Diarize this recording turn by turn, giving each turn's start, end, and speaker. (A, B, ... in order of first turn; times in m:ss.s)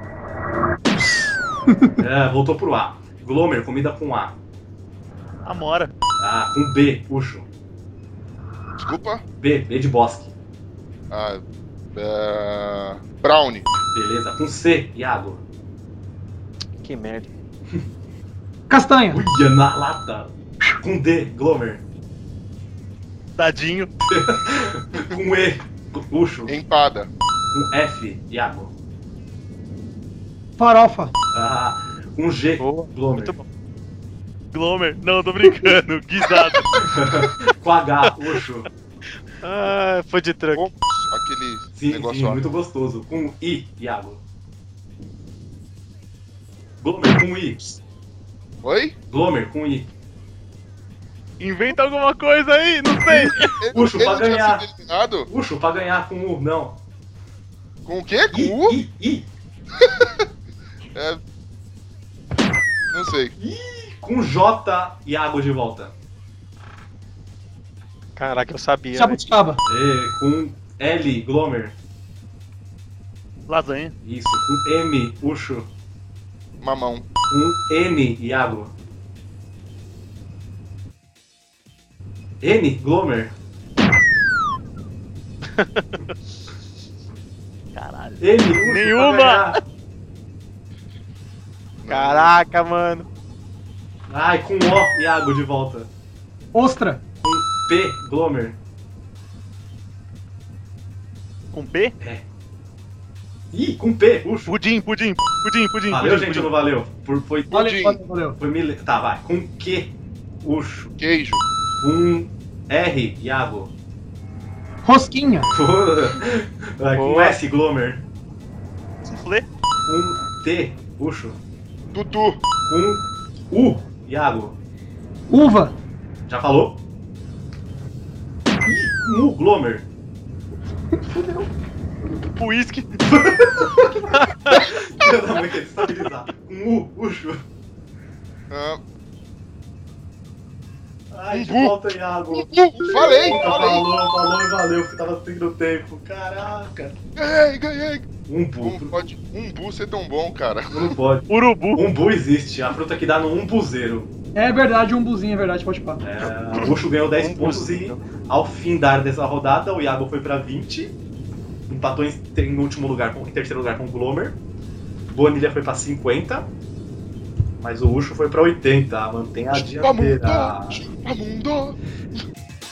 0:02.0-0:04.3 A
0:05.4-0:05.9 B
0:06.2-0:07.5 A
0:08.8-0:09.2 C
0:09.4-0:10.3 A
0:11.1-0:11.4 C
0:11.9-0:13.7 C
0:13.9-0:15.4 A
0:16.8-0:17.3 D
0:18.7-0:19.2 E
0:19.1-0:21.8 A
0:23.4-0:23.9 B
0:24.1-0:26.5 A
0:26.5-0:27.1 C
0:27.5-0:28.7 A
0:30.6-0:31.1 E
0:31.3-0:33.3 A
0:32.6-0:33.4 D
0:34.5-0:36.8 B
0:36.8-0:38.7 A
0:39.4-0:40.7 D
0:40.5-0:42.4 C
0:41.8-0:44.2 A
0:46.8-0:47.8 A
0:48.6-0:48.9 C
0:49.1-0:49.9 A
0:51.4-0:53.6 B
0:53.1-0:55.3 C
0:53.7-0:54.7 A
0:55.2-0:56.8 A
0:57.8-0:58.8 C
0:58.3-0:59.3 A
0:59.8-1:00.2 C
1:00.9-1:01.2 C
1:02.9-1:03.3 C
1:03.4-1:05.9 A
1:08.2-1:09.2 D
1:08.9-1:09.6 E
1:09.6-1:11.7 A
1:13.5-1:13.9 B
1:14.0-1:15.7 A
1:16.6-1:17.0 C
1:17.3-1:18.7 A
1:22.4-1:23.3 A
1:25.5-1:25.9 D
1:27.7-1:29.6 B
1:28.2-1:29.6 A
1:31.8-1:32.4 C
1:31.9-1:33.1 D
1:34.1-1:35.9 A
1:36.5-1:37.0 E
1:37.2-1:38.6 A
1:41.5-1:41.9 B
1:43.5-1:44.5 A
1:44.4-1:46.5 B
1:45.9-1:47.7 A
1:47.5-1:48.0 C
1:47.5-1:48.4 E
1:48.4-1:50.9 A
1:51.0-1:51.4 C
1:51.8-1:53.7 A
1:54.8-1:55.5 E
1:55.5-1:58.0 A
1:57.0-1:57.4 D
1:59.0-1:59.5 B
1:59.8-2:01.4 A
2:01.9-2:02.4 C
2:02.7-2:04.6 A
2:05.3-2:05.7 E
2:06.3-2:06.8 A
2:08.6-2:09.8 A
2:11.1-2:11.4 E
2:12.4-2:13.0 B
2:13.0-2:17.4 A
2:18.5-2:18.8 C
2:21.1-2:27.0 A
2:21.3-2:21.8 C
2:22.3-2:23.9 C
2:27.2-2:28.1 C
2:28.3-2:29.1 A
2:28.6-2:31.0 C
2:30.7-2:34.1 A
2:31.3-2:31.8 B
2:34.3-2:36.0 E
2:36.0-2:41.0 A
2:37.2-2:38.0 D
2:41.7-2:44.4 A
2:45.1-2:46.5 A
2:47.6-2:50.9 A
2:49.5-2:51.8 C